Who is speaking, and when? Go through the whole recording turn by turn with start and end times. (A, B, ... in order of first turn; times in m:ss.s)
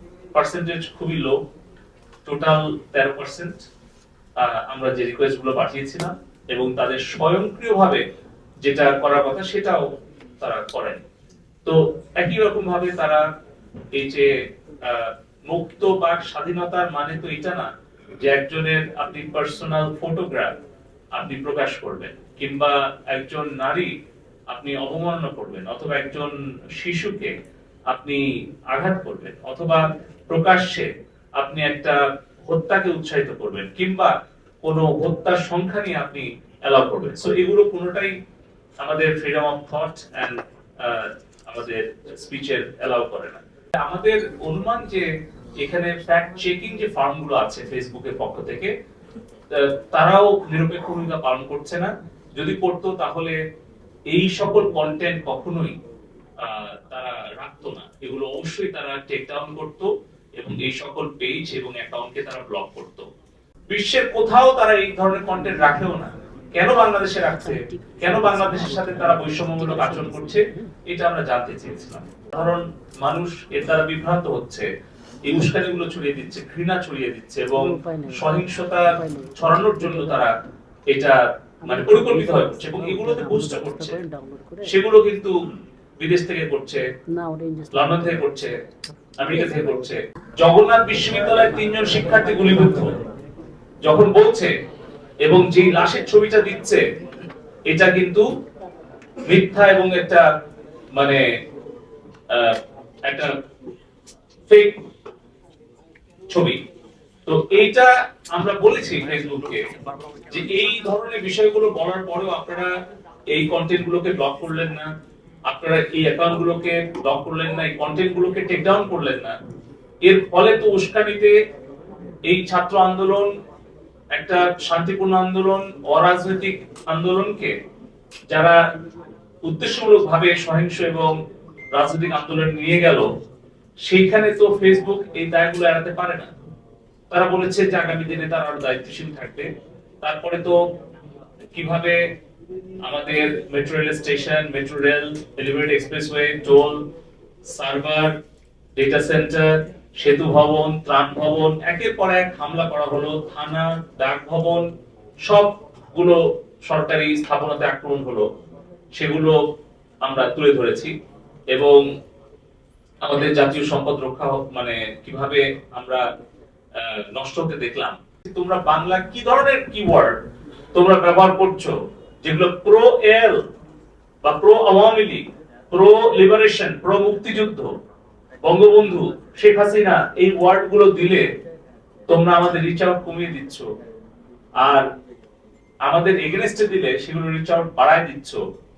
0:00.3-0:01.4 A
0:02.2-0:03.6 A
0:04.4-0:08.0 A
0:08.6-0:11.0 A
0:11.6-0:13.2 A
0:13.9-0:17.7 A
0:18.2-0:20.5 A
0:21.1-0:23.9 A
0:24.5-0:27.4 A
0:27.9-0:34.1 A
0:34.6-0:38.1 A
0:38.8-0:45.1 A
0:45.6-0:48.7 A
0:49.5-0:53.4 A
0:54.1-0:55.8 A
0:56.4-1:03.1 A
1:03.7-1:14.7 A
1:07.2-1:10.7 B
1:15.2-1:20.3 A
1:17.6-1:20.2 B
1:20.9-1:24.0 A
1:21.7-1:24.8 B
1:24.6-1:25.3 A
1:26.0-1:26.8 A
1:27.1-1:28.3 B
1:27.7-1:28.6 A
1:29.2-1:33.0 A
1:29.3-1:29.7 B
1:33.8-1:34.5 A
1:35.2-1:36.8 A
1:37.7-1:38.3 A
1:39.3-1:40.2 A
1:40.9-1:41.2 A
1:42.3-1:43.4 A
1:44.5-1:44.8 A
1:46.3-1:46.6 A
1:47.2-1:49.7 A
1:50.3-1:52.7 A
1:53.3-1:54.9 A
1:55.5-1:59.3 A
2:00.0-2:01.3 A
2:02.3-2:03.3 A
2:04.1-2:07.5 A
2:08.3-2:08.6 A
2:09.4-2:11.2 A
2:11.7-2:13.1 A
2:13.8-2:16.3 A
2:17.1-2:19.5 A
2:20.0-2:20.6 A
2:21.5-2:22.0 A
2:22.8-2:26.8 A
2:27.5-2:28.1 A
2:28.8-2:34.7 A
2:35.2-2:38.3 A
2:38.9-2:39.4 A
2:40.0-2:40.9 A
2:41.5-2:41.8 A
2:43.0-2:46.0 A
2:46.8-2:50.2 A
2:50.7-2:53.4 A
2:54.2-2:57.7 A
2:58.4-3:01.3 A
3:02.1-3:03.7 A
3:05.8-3:08.4 A